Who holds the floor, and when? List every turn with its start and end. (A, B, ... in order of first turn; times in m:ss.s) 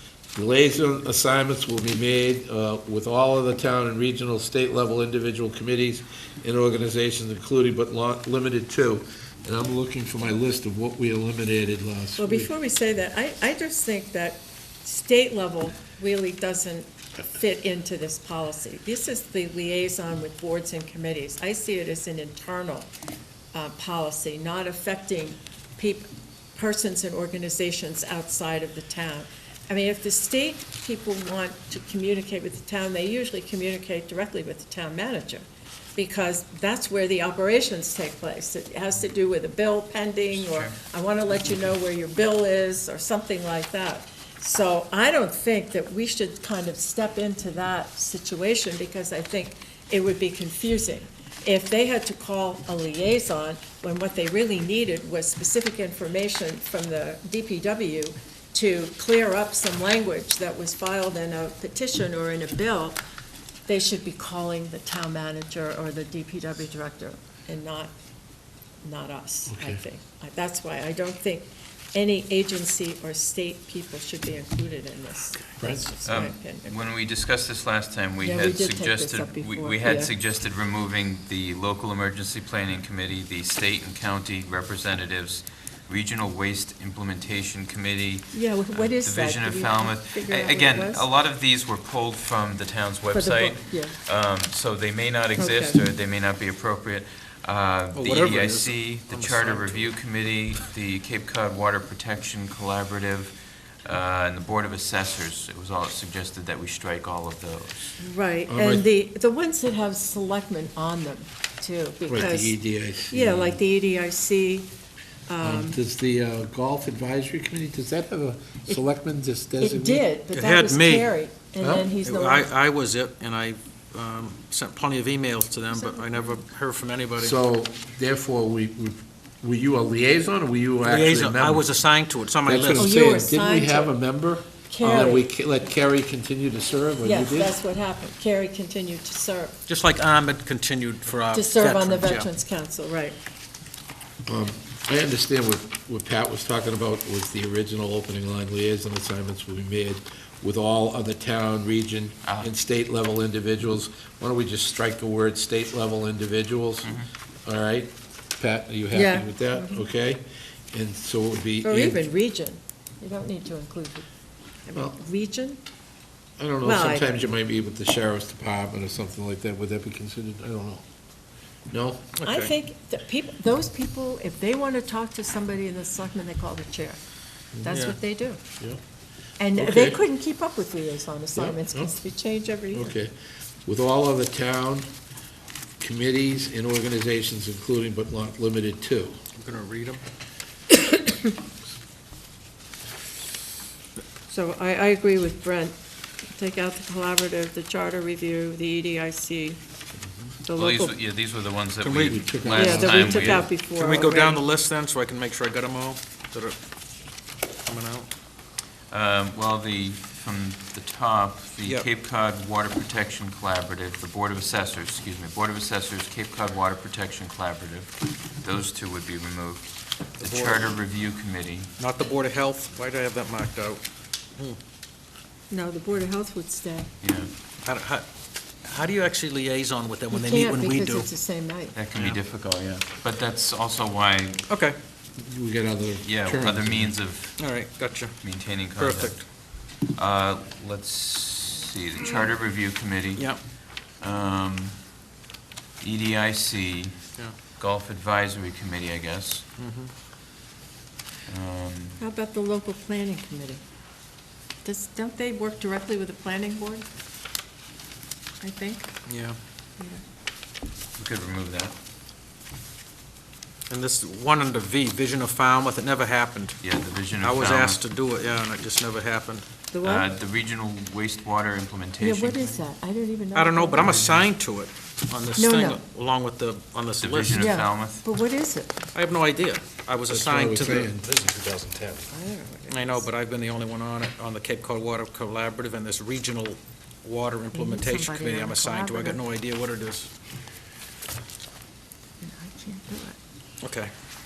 0:00.3-0:12.5 A
0:12.2-0:22.9 B
0:23.5-0:35.4 B
0:36.0-1:03.0 B
0:40.4-0:40.8 C
1:03.7-1:07.9 B
1:08.8-1:16.8 B
1:09.5-1:09.8 A
1:15.6-1:15.9 A
1:16.0-1:48.0 C
1:18.2-1:20.1 B
1:28.3-1:31.1 B
1:33.1-1:34.0 B
1:35.4-1:35.8 B
1:38.0-1:39.9 D
1:48.0-1:52.6 B
1:48.5-1:48.9 A
1:52.1-1:53.6 A
1:53.1-1:54.7 B
1:55.3-1:55.8 B
1:55.4-2:00.0 A
1:59.6-2:02.5 B
2:00.3-2:01.1 D
2:01.6-2:01.9 A
2:02.0-2:07.4 D
2:05.7-2:06.4 B
2:07.2-2:11.7 A
2:10.8-2:12.9 D
2:12.4-2:17.5 A
2:12.8-2:14.0 B
2:14.7-2:15.3 B
2:17.0-2:19.6 B
2:19.7-2:22.3 D
2:21.3-2:23.2 B
2:24.3-2:42.1 A
2:32.2-2:32.5 C
2:36.8-2:37.1 C
2:38.9-2:39.9 B
2:41.6-2:44.1 B
2:44.6-2:45.6 B
2:46.4-2:50.8 A
2:46.6-2:47.1 B
2:51.7-2:52.1 A
2:52.2-2:52.5 D
2:52.2-2:57.0 B
2:57.6-2:58.4 B
2:57.7-2:58.0 D
2:59.4-3:02.9 B
2:59.6-3:00.0 A
3:01.4-3:02.0 A
3:02.7-3:03.1 A
3:03.7-3:04.9 A
3:05.8-3:09.1 A
3:09.4-3:10.0 D
3:10.8-3:11.2 B
3:14.3-3:15.8 B
3:16.3-3:19.6 B
3:20.4-3:21.0 B
3:20.6-3:23.5 C
3:21.8-3:22.4 D
3:22.1-3:23.4 A
3:22.5-3:24.4 B
3:23.3-3:26.6 D
3:27.6-3:28.1 D
3:28.9-3:41.7 C
3:40.2-3:40.8 D
3:41.8-3:43.8 D
3:45.5-3:46.9 B
3:47.0-3:47.3 C
3:47.6-3:48.0 D
3:48.6-3:51.1 D
3:50.1-3:51.8 B
3:51.8-3:54.4 C
3:54.5-3:54.8 D
3:55.2-3:56.9 A
3:56.0-3:57.3 C
3:57.4-3:58.2 D
3:58.2-4:04.8 C
3:58.8-3:59.2 D
4:03.2-4:03.4 D
4:05.8-4:07.0 C
4:07.5-4:09.5 C
4:09.6-4:09.9 D
4:11.3-4:12.0 C
4:12.0-4:13.6 B
4:14.6-4:16.9 B
4:18.4-4:18.9 B
4:19.1-4:19.4 D
4:21.0-4:21.7 C
4:23.7-4:26.6 D
4:26.6-4:27.8 C
4:27.2-4:29.4 D
4:29.7-4:30.1 B
4:29.8-4:32.6 C
4:32.0-4:33.9 B
4:33.3-4:37.5 D
4:33.8-4:34.3 A
4:35.4-4:35.8 B
4:37.0-4:38.1 C
4:37.3-4:38.8 B
4:38.9-4:42.1 D
4:40.1-4:41.1 A
4:42.1-4:43.1 B
4:42.7-4:50.1 D
4:47.5-4:49.2 B
4:52.2-4:53.2 B
4:53.6-4:53.9 D